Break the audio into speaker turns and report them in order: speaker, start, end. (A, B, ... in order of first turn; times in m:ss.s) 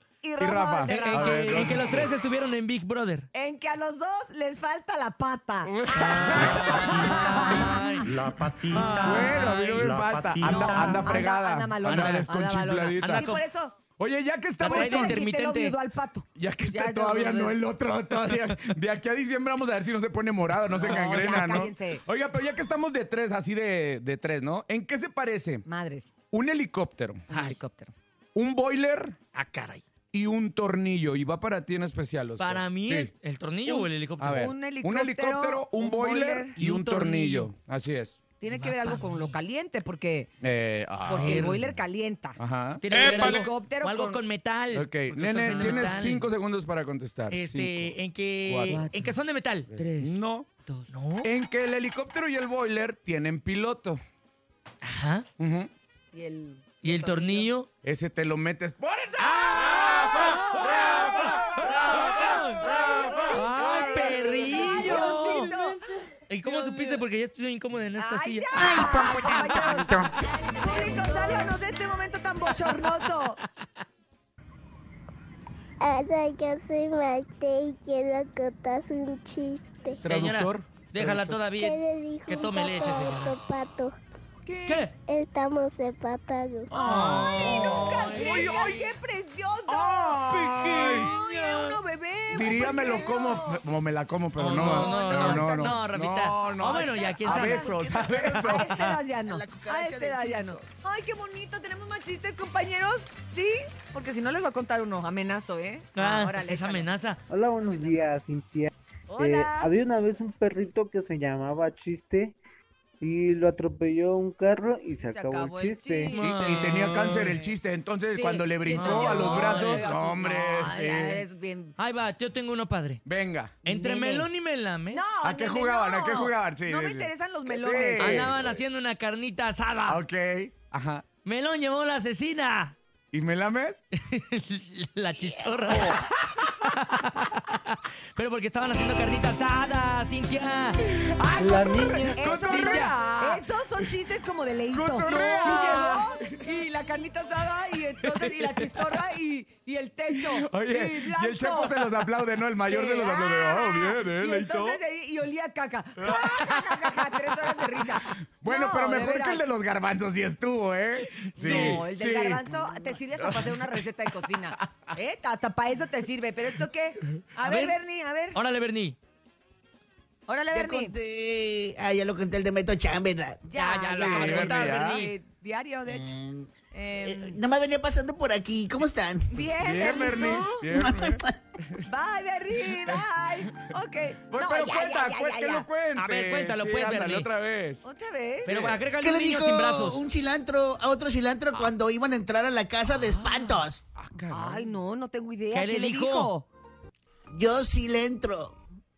0:00.2-0:02.0 A
0:00.4-0:02.1 B
0:00.9-0:03.3 C
0:03.3-0:08.0 A
0:05.6-0:07.2 B
0:06.0-0:08.1 C
0:08.1-0:08.9 D
0:08.7-0:09.9 C
0:08.8-0:09.5 A
0:08.9-0:13.3 B
0:09.8-0:11.1 D
0:10.4-0:13.7 A
0:11.8-0:12.3 C
0:13.0-0:13.4 C
0:14.0-0:15.2 B
0:14.6-0:15.8 C
0:14.6-0:17.6 A
0:16.4-0:25.6 B
0:20.7-0:21.2 C
0:20.8-0:22.0 A
0:25.6-0:26.1 A
0:26.3-0:27.2 B
0:27.3-0:27.6 C
0:27.3-0:27.9 A
0:28.3-0:29.2 B
0:29.3-0:29.8 C
0:30.1-0:33.1 B
0:32.4-0:34.4 C
0:33.6-0:36.6 A
0:34.2-0:38.2 B
0:36.6-0:37.5 C
0:38.4-0:40.3 A
0:38.5-0:39.4 C
0:40.4-0:41.6 B
0:41.0-0:42.4 A
0:41.1-0:41.6 C
0:42.4-0:43.3 B
0:42.8-0:46.3 C
0:42.9-0:44.2 A
0:44.7-0:48.9 B
0:45.4-0:46.1 A
0:47.3-0:49.9 C
0:48.7-0:49.1 A
0:49.7-0:50.5 B
0:49.7-0:50.1 A
0:50.9-0:51.3 C
0:51.2-0:54.0 B
0:54.8-0:55.3 C
0:55.4-0:55.7 B
0:56.1-0:57.5 A
0:56.8-0:57.7 C
0:57.8-1:01.8 B
0:59.6-1:05.5 C
1:00.1-1:01.3 A
1:02.7-1:05.8 A
1:02.8-1:04.9 B
1:06.3-1:09.9 C
1:06.4-1:07.0 A
1:08.0-1:13.4 A
1:10.5-1:11.4 C
1:12.7-1:13.3 C
1:15.8-1:20.0 E
1:20.0-1:21.4 B
1:20.0-1:23.4 C
1:21.6-1:23.9 E
1:24.4-1:24.9 A
1:24.6-1:24.9 C
1:25.1-1:26.7 E
1:26.7-1:28.5 B
1:26.8-1:28.9 C
1:27.1-1:33.6 A
1:29.7-1:31.1 B
1:30.3-1:31.8 C
1:32.3-1:38.9 B
1:34.4-1:37.9 C
1:34.6-1:35.8 A
1:36.6-1:46.9 A
1:38.4-1:39.0 C
1:39.2-1:40.6 F
1:45.9-1:47.2 C
1:47.3-1:52.4 G
1:47.6-1:48.0 A
1:49.1-1:49.7 A
1:53.0-1:56.1 G
1:55.0-1:57.5 A
1:56.1-1:57.4 C
1:56.2-2:01.2 B
1:58.1-2:01.7 A
1:58.7-1:59.9 C
2:01.8-2:03.0 C
2:03.0-2:03.6 B
2:03.6-2:04.3 A
2:03.6-2:05.1 C
2:04.9-2:08.3 A
2:05.2-2:08.6 B
2:08.0-2:10.0 C
2:09.8-2:11.0 B
2:11.2-2:12.8 C
2:13.1-2:13.8 B
2:14.0-2:20.8 C
2:15.6-2:16.7 B
2:20.8-2:22.9 B
2:21.2-2:32.1 A
2:21.4-2:22.2 F
2:22.4-2:23.4 C
2:24.7-2:26.5 B
2:25.2-2:26.0 C
2:28.4-2:28.7 B
2:30.1-2:34.8 B
2:32.6-2:39.4 A
2:36.0-2:44.9 B
2:41.3-2:48.4 A
2:41.4-2:41.8 C
2:47.4-2:47.8 C
2:48.3-2:49.0 C
2:50.3-2:51.0 A
2:50.5-2:53.4 F
2:53.5-2:56.2 A
2:53.5-2:55.1 C
2:53.9-2:55.0 B
2:55.8-2:59.2 F
2:56.7-2:57.4 A
2:59.3-3:00.5 A
2:59.6-3:01.9 B
3:00.1-3:00.6 C
3:00.7-3:01.4 F
3:01.8-3:05.7 A
3:02.6-3:07.8 B
3:06.0-3:07.3 C
3:07.8-3:08.5 A
3:08.4-3:08.8 B
3:08.4-3:10.0 C
3:09.0-3:13.8 F
3:12.9-3:13.5 C
3:13.9-3:14.8 B
3:14.3-3:16.5 A
3:15.5-3:16.3 C
3:17.3-3:18.5 F